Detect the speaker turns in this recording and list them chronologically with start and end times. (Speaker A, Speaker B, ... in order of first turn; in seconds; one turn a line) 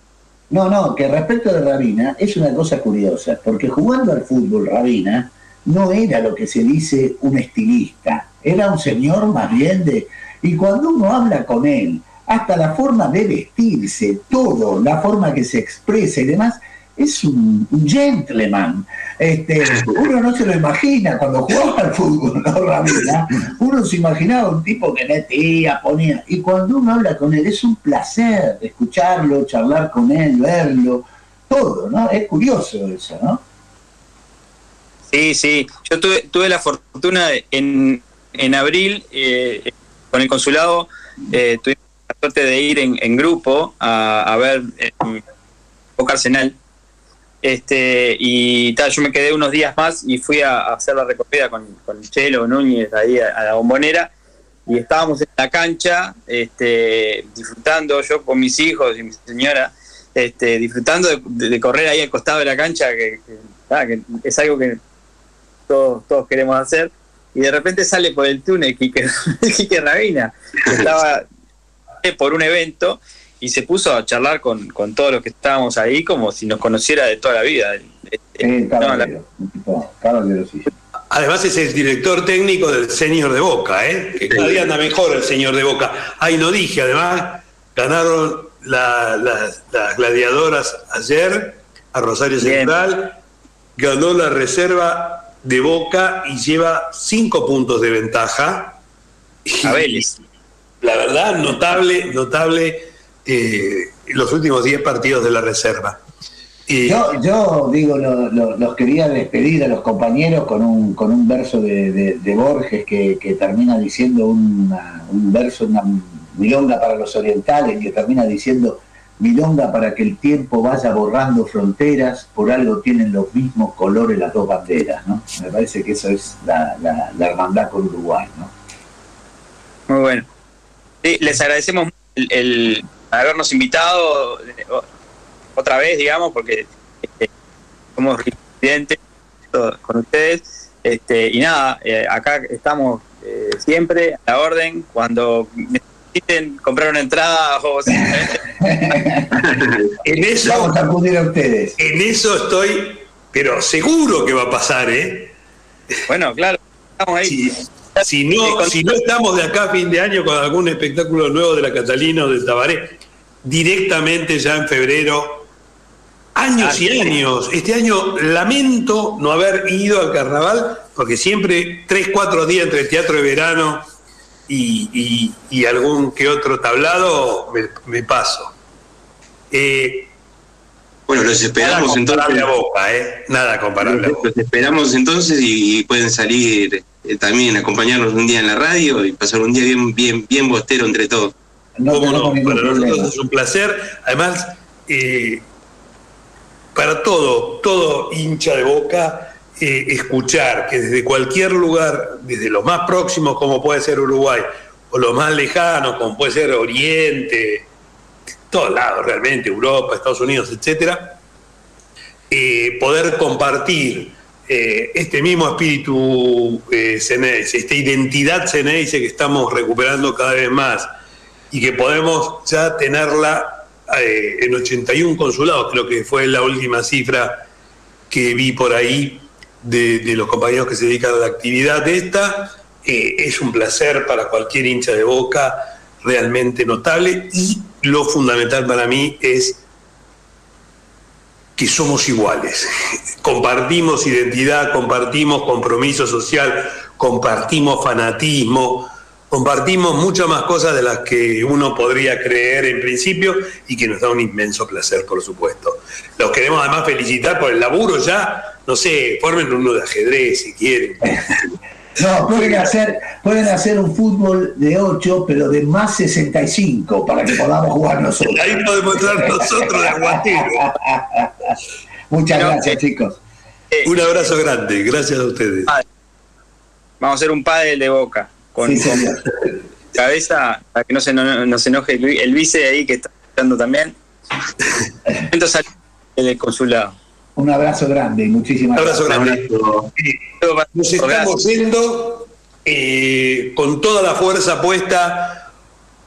Speaker A: 0.5-33.4
Speaker B: 35.1-45.2
Speaker B: 46.0-46.5
Speaker B: 47.4-54.1
Speaker B: 54.7-64.8
Speaker B: 65.7-71.2
Speaker B: 72.0-79.1
Speaker A: 78.4-80.7
Speaker C: 81.1-93.2
Speaker D: 84.2-84.7
Speaker B: 92.4-92.7
Speaker C: 93.8-98.8
Speaker C: 99.5-100.1
Speaker B: 99.6-100.2
Speaker C: 100.8-106.0
Speaker C: 106.7-107.0
Speaker A: 106.8-128.5
Speaker B: 129.9-130.3
Speaker B: 131.0-134.8
Speaker B: 135.6-137.3
Speaker B: 137.9-139.0
Speaker B: 139.5-148.4
Speaker A: 147.9-149.4
Speaker D: 149.4-149.8
Speaker C: 150.0-150.8
Speaker A: 150.4-151.8
Speaker C: 151.8-155.3
Speaker B: 156.1-157.4
Speaker C: 157.2-165.5
Speaker B: 158.0-158.8
Speaker C: 166.3-173.8
Speaker B: 166.6-167.2
Speaker C: 174.5-178.6
Speaker C: 179.5-180.1
Speaker D: 181.1-182.5
Speaker C: 181.6-184.3
Speaker D: 183.8-191.3
Speaker A: 191.8-193.1
Speaker C: 191.9-195.4
Speaker C: 196.7-207.7
Speaker C: 208.5-211.2
Speaker C: 212.3-220.9
Speaker C: 221.5-227.4
Speaker C: 228.1-239.6
Speaker C: 241.6-242.7
Speaker C: 243.2-261.5
Speaker A: 262.0-271.6
Speaker C: 262.3-262.7
Speaker C: 268.2-270.7
Speaker A: 272.1-273.2
Speaker B: 272.3-272.8
Speaker C: 273.9-275.7
Speaker B: 277.0-279.0
Speaker A: 278.6-279.3
Speaker B: 279.9-284.0
Speaker B: 285.3-287.0
Speaker A: 287.4-289.1
Speaker C: 288.8-289.4
Speaker D: 289.1-289.9
Speaker C: 290.0-290.2
Speaker B: 290.4-291.4
Speaker C: 290.7-295.5